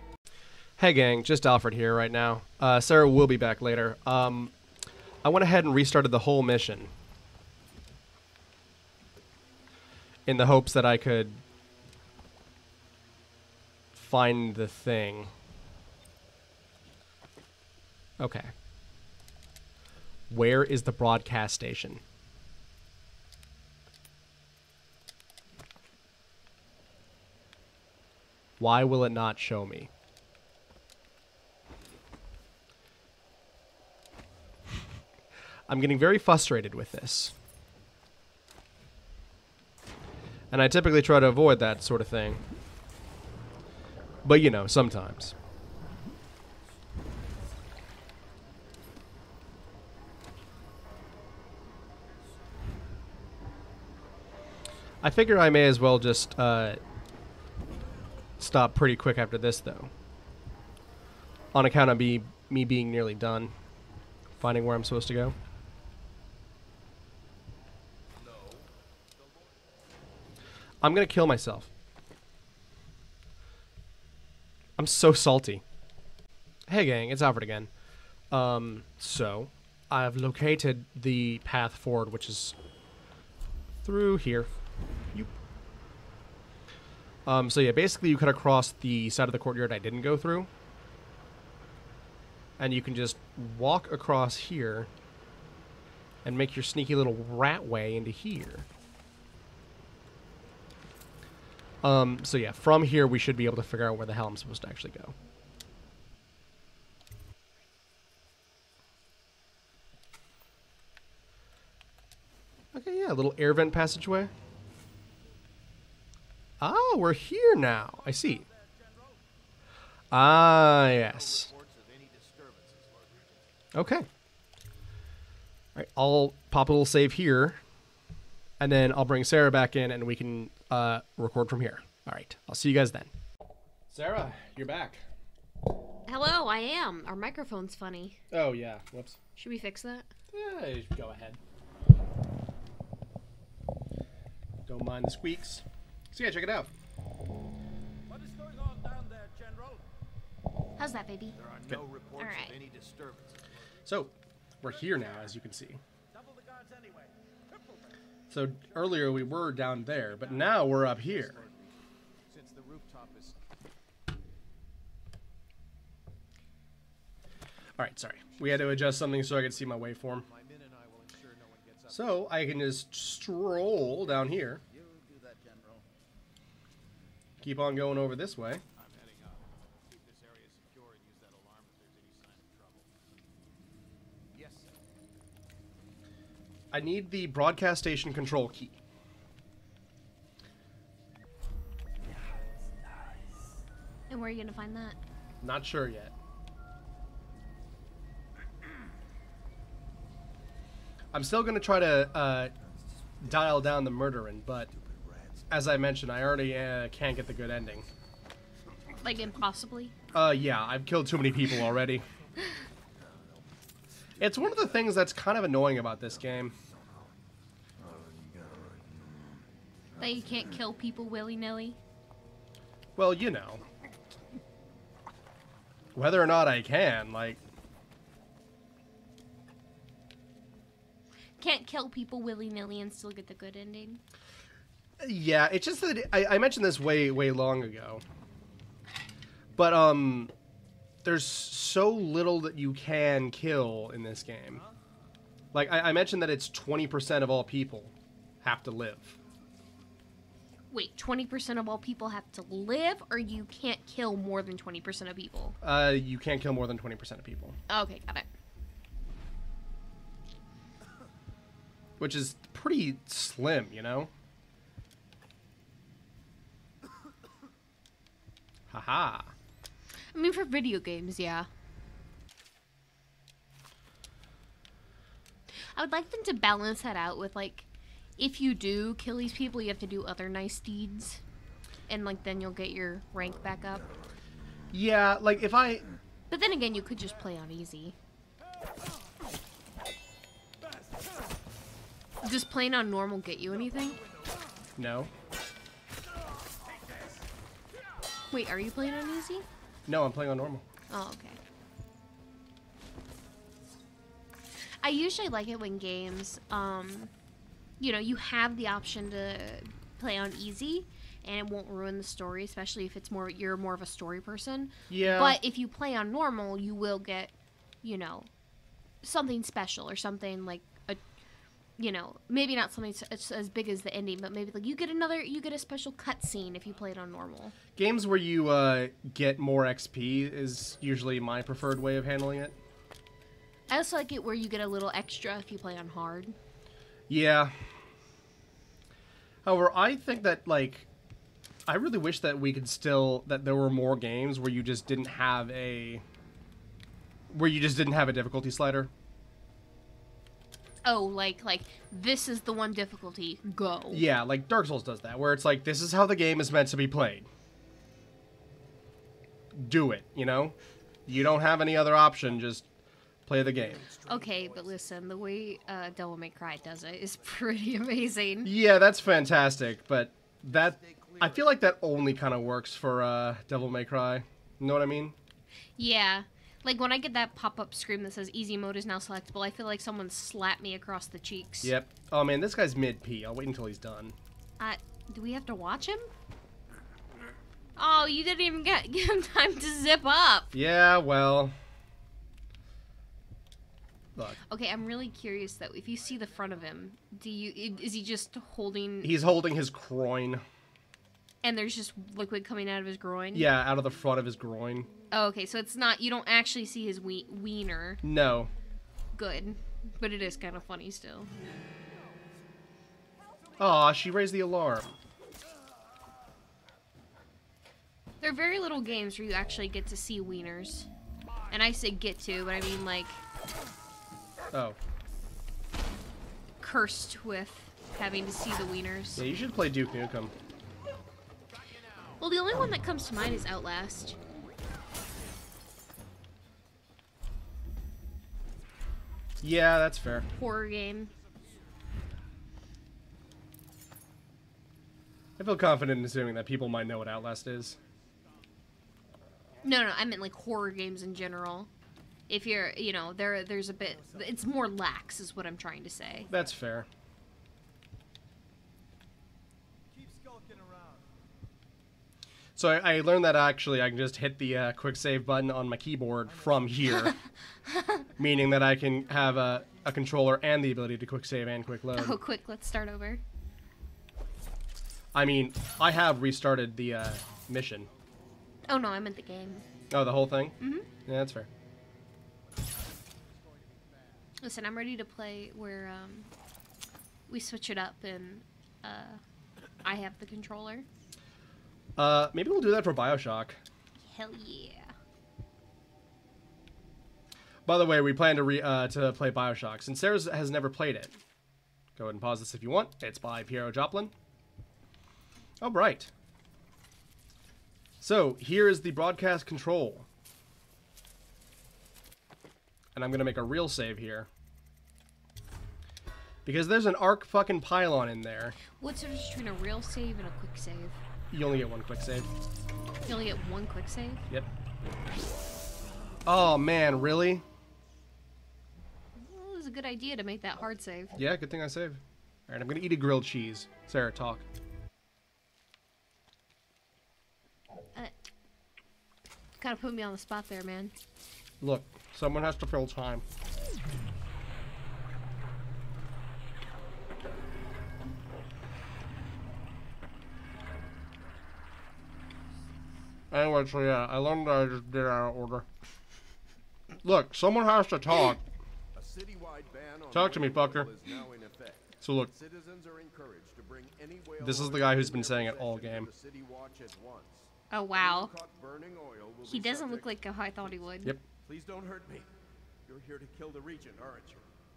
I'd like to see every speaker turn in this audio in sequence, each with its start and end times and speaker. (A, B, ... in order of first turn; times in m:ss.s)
0:00.8-0:04.5 A
0:05.2-0:06.9 A
0:10.2-0:11.4 A
0:13.9-0:15.3 A
0:18.2-0:18.5 A
0:20.3-0:22.0 A
0:28.6-0:29.9 A
0:35.7-0:37.3 A
0:40.5-0:42.4 A
0:44.2-0:45.4 A
0:55.0-0:56.8 A
0:58.4-0:59.9 A
1:01.5-1:03.5 A
1:04.4-1:05.4 A
1:08.2-1:08.7 B
1:09.2-1:09.5 B
1:10.8-1:11.7 A
1:14.8-1:15.6 A
1:16.7-1:17.7 A
1:18.3-1:22.5 A
1:23.8-1:24.5 A
1:27.2-1:30.5 A
1:32.6-1:34.9 A
1:36.2-1:38.7 A
1:41.8-1:45.1 A
1:52.7-1:54.3 A
1:56.6-1:58.4 A
1:57.9-1:59.2 B
2:00.1-2:01.5 A
2:00.6-2:03.5 B
2:03.7-2:04.1 A
2:05.8-2:07.6 A
2:08.6-2:13.1 A
2:13.9-2:15.0 A
2:16.1-2:18.2 C
2:18.3-2:19.2 A
2:19.4-2:20.1 C
2:20.3-2:21.4 A
2:24.7-2:26.7 A
2:28.1-2:29.8 B
2:30.8-2:31.4 C
2:31.4-2:33.5 B
2:32.2-2:32.6 C
2:33.9-2:35.8 A
2:34.6-2:35.2 B
2:36.1-2:37.8 B
2:38.3-2:41.4 A
2:39.7-2:43.4 B
2:47.8-2:50.2 A
2:50.2-2:52.3 B
2:51.9-2:54.6 A
2:57.4-2:58.6 A
2:58.8-3:02.9 B
3:04.3-3:04.8 B
3:06.7-3:08.8 A
3:14.1-3:15.0 C
3:15.4-3:16.1 A
3:21.1-3:22.5 A
3:22.7-3:23.8 B
3:23.2-3:24.7 A
3:24.7-3:25.5 B
3:25.5-3:27.9 A
3:29.0-3:29.9 C
3:30.1-3:32.0 A
3:33.0-3:33.4 B
3:34.2-3:35.0 B
3:34.2-3:36.5 A
3:36.4-3:37.1 B
3:37.8-3:39.4 B
3:39.9-3:40.5 B
3:40.0-3:41.8 C
3:43.0-3:43.6 A
3:45.9-3:47.4 A
3:51.4-3:54.0 C
3:55.0-3:58.0 A
3:59.5-4:00.3 A
4:01.0-4:04.6 A
4:05.5-4:09.2 A
4:10.7-4:15.6 C
4:15.6-4:17.6 A
4:17.7-4:18.3 C
4:22.0-4:24.1 A
4:28.7-4:29.3 A
4:30.1-4:31.5 C
4:35.8-4:41.2 C
4:41.9-4:43.9 C
4:44.7-4:45.8 A
4:46.3-4:47.9 C
4:52.2-4:54.0 C
4:54.8-4:55.1 A
4:58.3-4:59.4 C
4:59.9-5:00.6 A
5:00.9-5:01.4 C
5:04.8-5:07.1 C
5:07.8-5:18.3 C
5:14.9-5:15.4 A
5:19.0-5:21.0 C
5:21.8-5:27.5 C
5:27.8-5:32.6 A
5:33.7-5:36.4 C
5:37.1-5:37.6 A
5:39.4-5:40.9 A
5:41.6-5:46.0 A
5:47.3-5:48.9 A
5:50.8-5:54.0 C
5:53.9-5:57.3 A
5:59.5-6:02.7 A
6:03.3-6:03.9 A
6:03.4-6:08.2 B
6:04.0-6:08.5 C
6:08.4-6:15.2 A
6:10.5-6:11.6 B
6:15.8-6:21.7 C
6:21.6-6:24.2 A
6:24.6-6:26.1 C
6:27.8-6:30.5 C
6:30.5-6:31.6 A
6:34.5-6:39.1 C
6:39.0-6:40.4 A
6:41.4-6:43.5 C
6:43.3-6:44.9 A
6:45.1-6:48.0 C
6:48.0-6:48.5 A
6:49.1-6:51.3 C
6:53.6-6:55.0 A
6:58.2-7:00.9 C
7:01.5-7:03.2 C
7:04.5-7:04.8 A
7:06.6-7:09.3 C
7:09.1-7:10.3 A
7:12.2-7:14.2 C
7:19.4-7:20.3 A
7:20.4-7:21.1 C
7:21.3-7:21.6 B
7:25.4-7:27.8 A
7:29.6-7:31.7 C
7:32.3-7:36.3 C
7:36.3-7:36.9 A
7:40.0-7:41.0 B
7:42.6-7:47.2 A
7:47.7-7:48.0 C
7:48.2-7:52.2 A
7:51.9-7:53.2 C
7:55.1-7:57.9 A
7:58.7-7:59.6 C
7:59.9-8:01.5 A
8:00.6-8:00.9 C
8:03.2-8:04.3 B
8:04.4-8:06.3 C
8:07.3-8:09.2 C
8:09.8-8:10.9 C
8:12.0-8:13.6 A
8:14.0-8:14.9 C
8:17.6-8:21.2 A
8:22.0-8:24.1 A
8:25.6-8:26.1 A
8:28.0-8:30.1 A
8:32.9-8:34.3 A
8:36.4-8:38.6 A
8:38.8-8:41.0 C
8:41.3-8:42.3 A
8:43.1-8:44.2 C
8:46.2-8:47.4 A
8:49.1-8:51.1 C
8:51.1-8:54.4 A
8:59.6-9:00.9 C
9:01.6-9:03.2 A
9:13.3-9:15.6 A
9:17.0-9:18.4 A
9:18.9-9:30.8 B
9:20.1-9:20.9 A
9:22.0-9:22.3 A
9:24.4-9:26.1 A
9:27.7-9:28.3 C
9:29.4-9:31.2 C
9:31.4-9:32.3 B
9:32.9-9:34.5 B